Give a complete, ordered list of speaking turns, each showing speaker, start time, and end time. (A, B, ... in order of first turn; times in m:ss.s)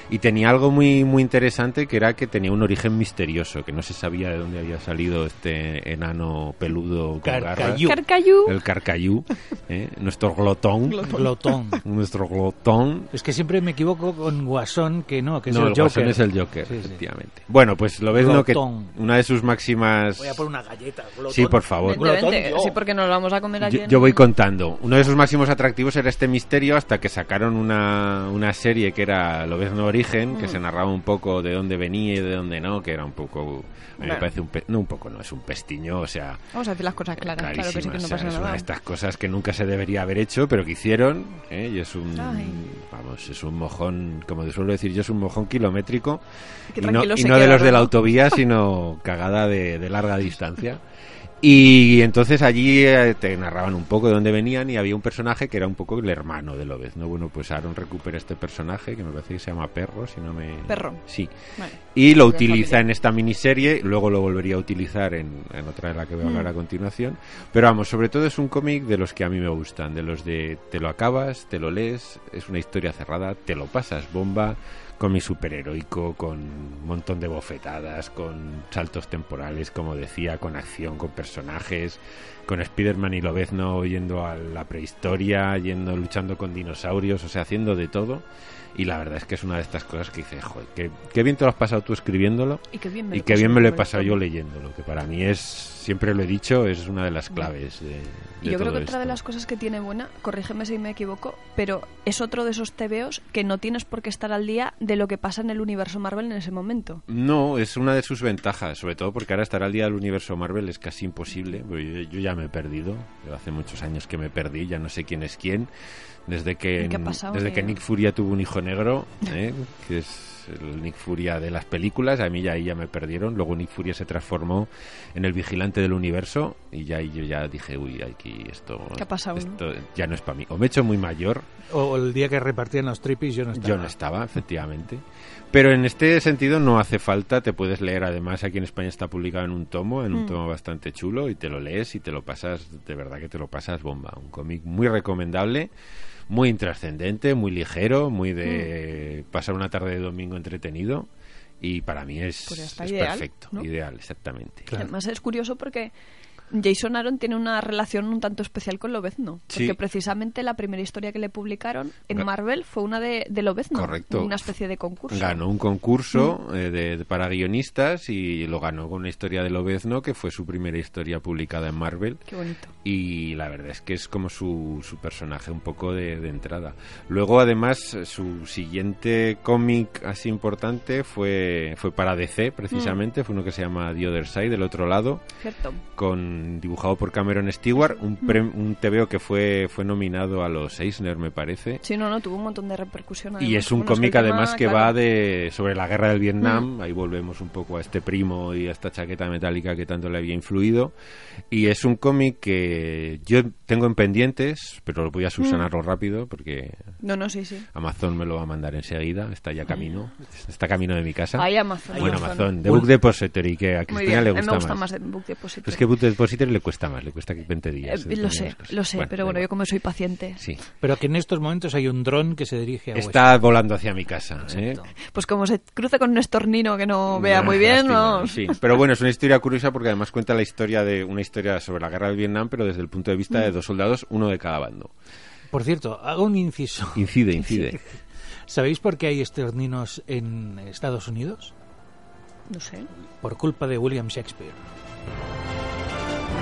0:00.1-0:07.9 A
0:07.2-0:08.0 B
0:07.8-0:08.6 C
0:08.4-0:11.2 A
0:10.9-0:11.3 C
0:11.1-0:11.8 B
0:11.8-0:13.1 A
0:13.1-0:17.0 B
0:15.5-0:20.4 A
0:18.1-0:18.9 B
0:20.2-0:22.8 B
0:21.3-0:22.2 A
0:21.8-0:24.2 C
0:23.6-0:36.4 A
0:30.3-0:30.6 C
0:34.0-0:34.3 C
0:36.5-0:38.7 C
0:37.2-0:46.2 A
0:42.1-0:42.6 C
0:46.7-0:48.2 C
0:46.7-0:50.8 A
0:51.4-1:01.3 A
1:00.7-1:01.0 C
1:01.6-1:02.8 C
1:01.9-1:39.2 A
1:06.2-1:06.5 C
1:32.7-1:34.2 C
1:38.4-1:47.0 C
1:47.1-1:55.7 A
1:56.3-2:11.4 A
1:56.8-1:57.8 C
2:09.0-2:09.6 C
2:11.7-2:13.9 B
2:13.5-2:25.7 A
2:26.3-2:31.1 A
2:28.4-2:28.7 C
2:31.6-2:34.7 A
2:32.5-2:33.7 C
2:34.7-2:35.9 C
2:36.5-2:45.4 C
2:39.5-2:39.8 A
2:43.7-2:44.3 A
2:45.1-2:52.2 A
2:52.3-2:52.7 C
2:52.8-3:05.2 A
3:02.7-3:03.0 C
3:05.4-3:05.8 C
3:06.0-3:11.8 A
3:11.8-3:15.0 C
3:13.4-3:20.9 A
3:21.5-3:26.8 A
3:25.4-3:25.6 C
3:27.0-3:27.7 C
3:27.7-3:34.8 A
3:31.3-3:32.5 C
3:31.9-3:32.9 B
3:33.9-3:35.8 C
3:35.6-3:39.4 A
3:37.9-3:40.4 C
3:40.4-3:40.6 A
3:40.8-3:43.4 B
3:42.9-3:44.8 A
3:44.5-3:44.9 B
3:45.0-3:48.6 C
3:47.1-3:54.9 A
3:55.5-3:57.1 B
3:56.9-3:57.8 A
3:58.5-4:01.5 B
4:02.5-4:02.9 C
4:03.2-4:04.6 B